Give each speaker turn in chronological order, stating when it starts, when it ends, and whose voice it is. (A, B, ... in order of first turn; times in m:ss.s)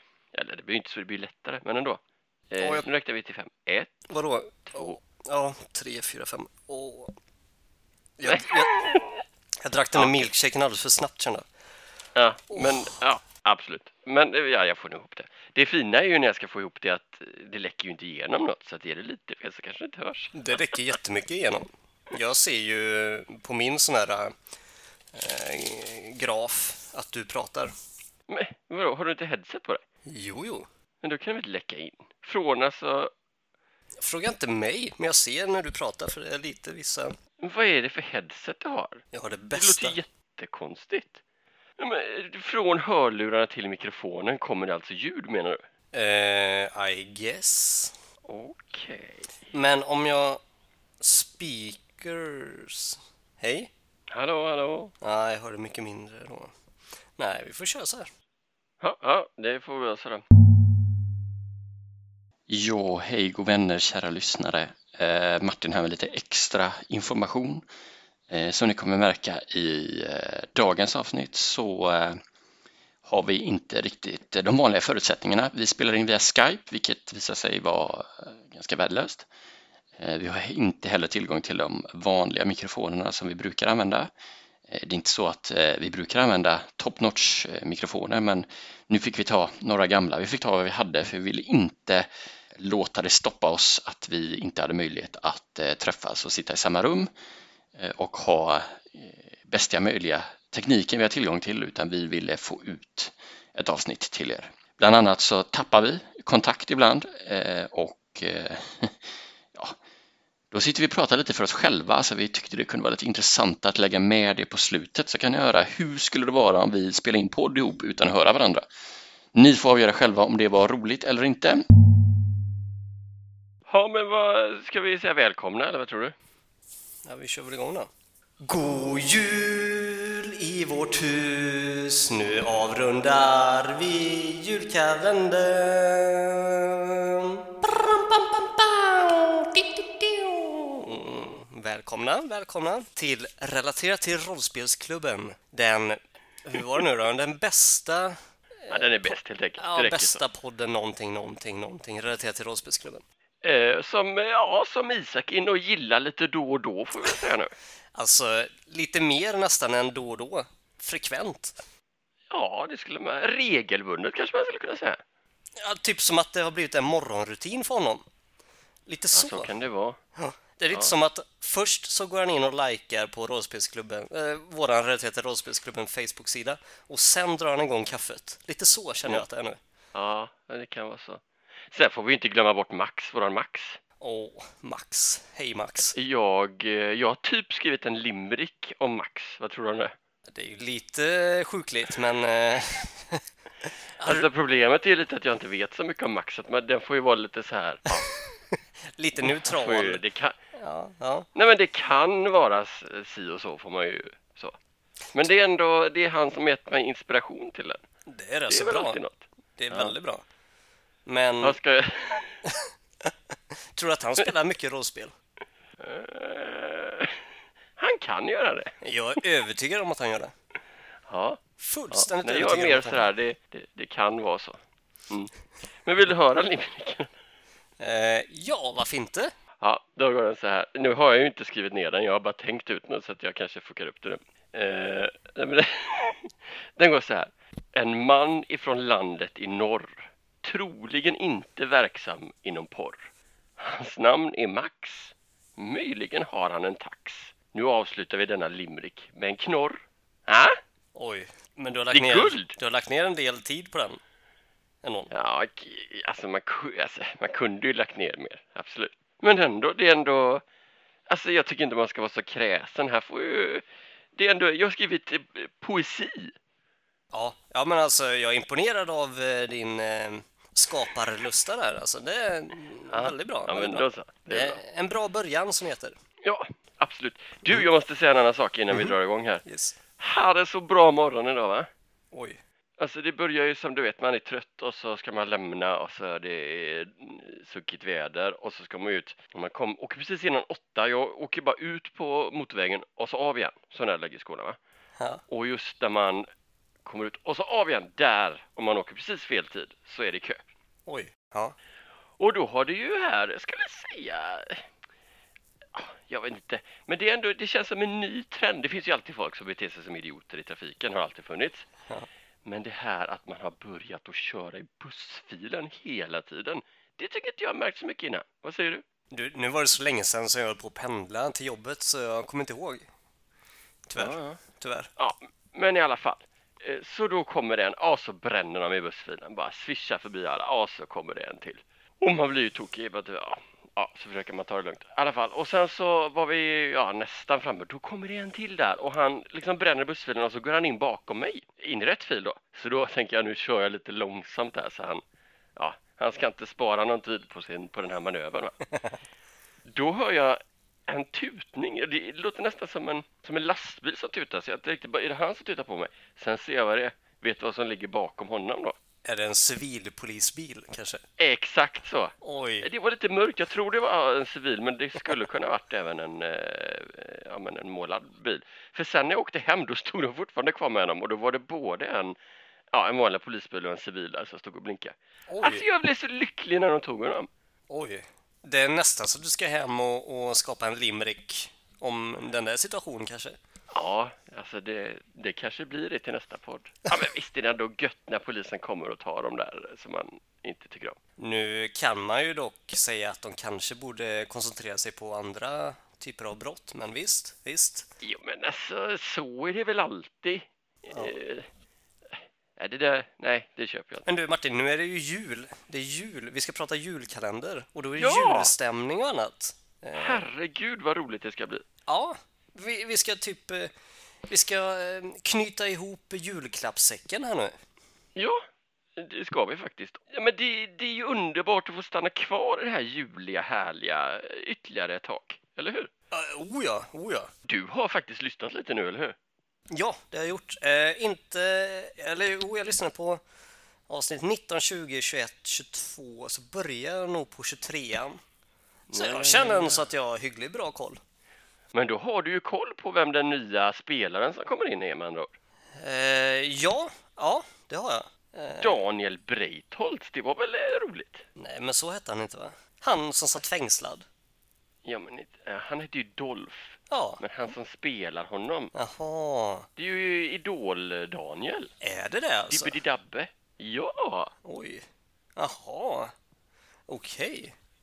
0:00.3-0:04.0 A
0:02.6-0:02.9 B
0:04.1-0:07.1 B
0:04.7-0:05.0 A
0:08.2-0:09.0 B
0:08.3-0:09.2 A
0:09.6-0:11.5 B
0:09.9-0:10.3 A
0:12.2-0:20.8 A
0:12.5-0:12.9 B
0:20.3-0:24.4 B
0:25.1-0:27.7 B
0:28.3-0:29.8 A
0:30.1-0:30.7 B
0:31.0-0:33.1 A
0:34.0-0:37.2 B
0:37.4-0:41.2 A
0:39.1-0:40.0 B
0:41.8-0:45.7 A
0:45.9-0:48.0 B
0:48.3-0:49.4 A
0:49.5-0:50.4 B
0:51.0-0:53.7 B
0:54.1-0:54.9 A
0:55.0-0:56.5 B
0:57.2-0:58.1 B
0:58.8-1:00.2 A
1:02.5-1:07.6 C
1:08.3-1:12.2 C
1:13.1-1:19.3 C
1:20.0-1:24.1 C
1:24.7-1:37.1 C
1:37.8-1:49.0 C
1:50.5-1:58.6 C
1:59.4-2:01.6 C
2:03.7-2:06.2 A
2:07.0-2:07.9 B
2:08.4-2:33.0 B
2:28.7-2:30.2 A
2:33.4-2:37.5 A
2:38.0-2:41.6 B
2:42.3-2:45.0 A
2:45.6-2:48.0 B
2:48.9-2:49.5 B
2:49.1-2:50.0 A
2:50.2-2:59.6 B
2:59.9-3:03.8 A
3:04.0-3:05.9 B
3:06.0-3:09.9 A
3:10.3-3:14.3 B
3:14.0-3:18.1 A
3:18.1-3:20.0 B
3:19.2-3:20.4 A
3:20.5-3:21.3 B
3:21.4-3:24.6 A
3:25.1-3:27.8 A
3:28.1-3:29.0 B
3:28.5-3:29.9 A
3:29.6-3:30.2 B
3:31.1-3:31.6 B
3:31.4-3:32.4 A
3:32.4-3:35.2 B
3:35.8-3:37.2 A
3:37.8-3:38.8 A
3:38.8-3:40.3 B
3:41.1-3:44.6 A
3:41.6-3:43.1 B
3:45.8-3:47.1 A
3:47.8-3:49.3 B
3:49.6-4:10.6 A
4:11.0-4:14.0 B
4:11.9-4:12.6 A
4:14.8-4:15.1 B
4:15.1-4:20.4 A
4:21.1-4:26.4 A
4:27.1-4:36.0 B
4:32.9-4:34.6 A
4:36.2-4:39.4 A
4:38.7-4:39.8 B
4:40.0-4:41.7 A
4:42.1-4:42.4 B
4:42.8-4:54.6 A
4:55.3-4:56.3 A
4:56.8-5:00.4 A
5:00.9-5:01.6 B
5:02.2-5:04.7 A
5:05.7-5:11.7 A
5:12.4-5:18.8 A
5:19.1-5:22.9 B
5:23.9-5:24.9 B
5:24.0-5:24.4 A
5:25.0-5:45.0 A
5:45.6-5:48.6 A
5:48.7-5:49.0 B
5:49.7-5:58.8 A
5:59.0-6:01.0 B
6:01.2-6:12.2 A
6:02.2-6:02.7 B
6:12.7-6:17.3 A
6:15.3-6:15.7 B
6:17.7-6:23.4 B
6:23.7-6:31.0 A
6:31.2-6:37.9 B
6:38.0-6:41.5 A
6:42.2-6:44.1 A
6:44.0-6:50.3 B
6:48.0-6:48.5 A
6:49.9-6:51.6 A
6:51.9-6:53.7 B
6:54.3-6:57.6 B
6:58.2-6:58.4 A
6:59.0-7:05.9 A
7:06.1-7:07.3 B
7:07.5-7:09.2 A
7:09.7-7:13.2 B
7:13.9-7:18.2 B
7:18.9-7:19.9 A
7:18.9-7:21.0 B
7:21.7-7:25.4 A
7:25.8-7:28.8 B
7:28.6-7:31.3 A
7:31.4-7:34.0 B
7:34.8-7:38.7 A
7:36.9-7:37.2 B
7:38.7-7:39.7 B
7:39.8-7:41.7 A
7:41.8-7:42.8 B
7:42.5-7:44.3 A
7:44.4-7:44.8 B
7:45.4-7:46.1 B
7:46.9-7:47.6 B